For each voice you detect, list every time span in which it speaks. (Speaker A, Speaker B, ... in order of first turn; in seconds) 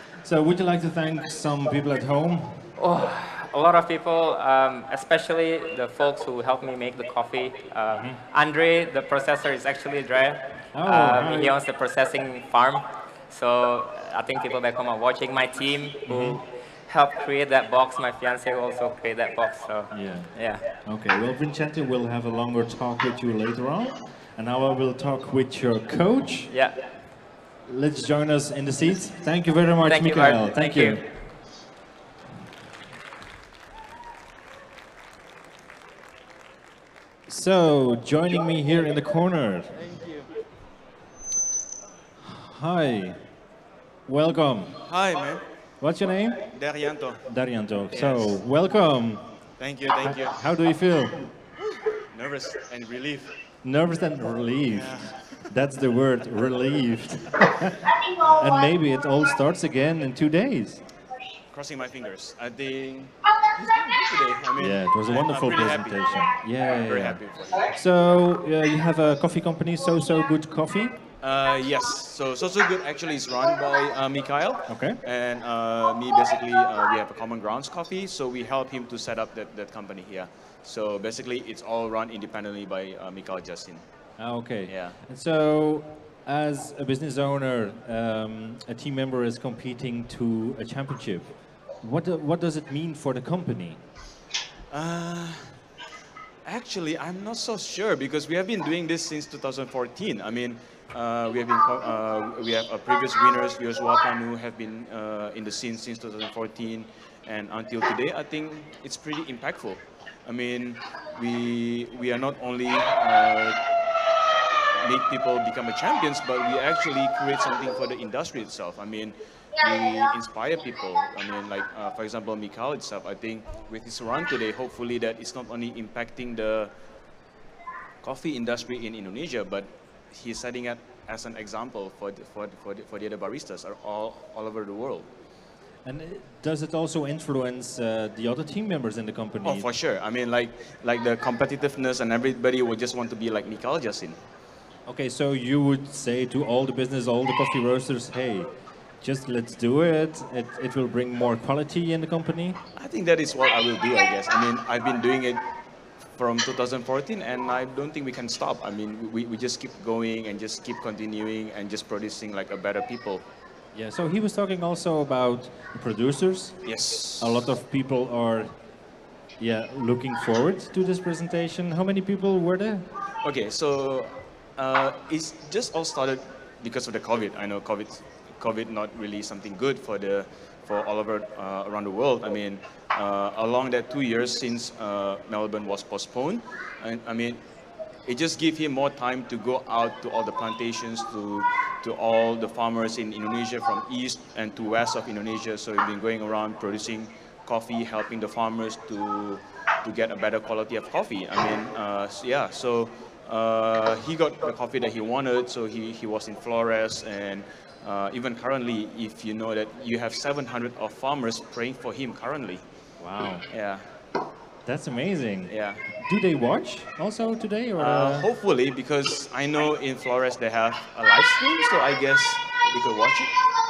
Speaker A: 0.2-2.7, 7.9-8.2, 10.7-11.6, 16.1-16.4, 19.9-26.5, 27.6-31.0, 37.3-39.9, 42.2-43.2, 44.1-44.8, 45.8-46.5, 47.2-49.2, 50.0-51.2, 53.6-57.8, 58.3-60.8, 64.6-70.9, 74.7-75.0, 84.2-93.8, 135.8-139.7, 144.9-148.5, 149.0-152.6, 163.7-168.5, 169.4-172.9, 213.0-213.4, 214.7-218.3
Speaker B: 2.8-20.6, 26.5-26.7, 29.8-31.0
Speaker C: 44.8-45.4, 46.5-47.2, 47.9-48.4, 49.6-50.4, 51.7-53.3, 54.7-55.3, 61.5-67.8, 71.2-83.8, 84.7-85.0, 94.7-95.6, 96.4-113.6, 114.8-126.7, 128.0-135.1, 139.4-144.2, 152.8-155.4, 156.1-163.2, 166.6-167.4, 173.2-187.4, 188.0-212.6, 213.5-213.8, 215.5-215.9, 217.8-223.3
Speaker D: 57.7-59.3, 61.1-61.4, 63.2-64.0, 66.0-66.5, 69.8-70.3, 119.5-120.2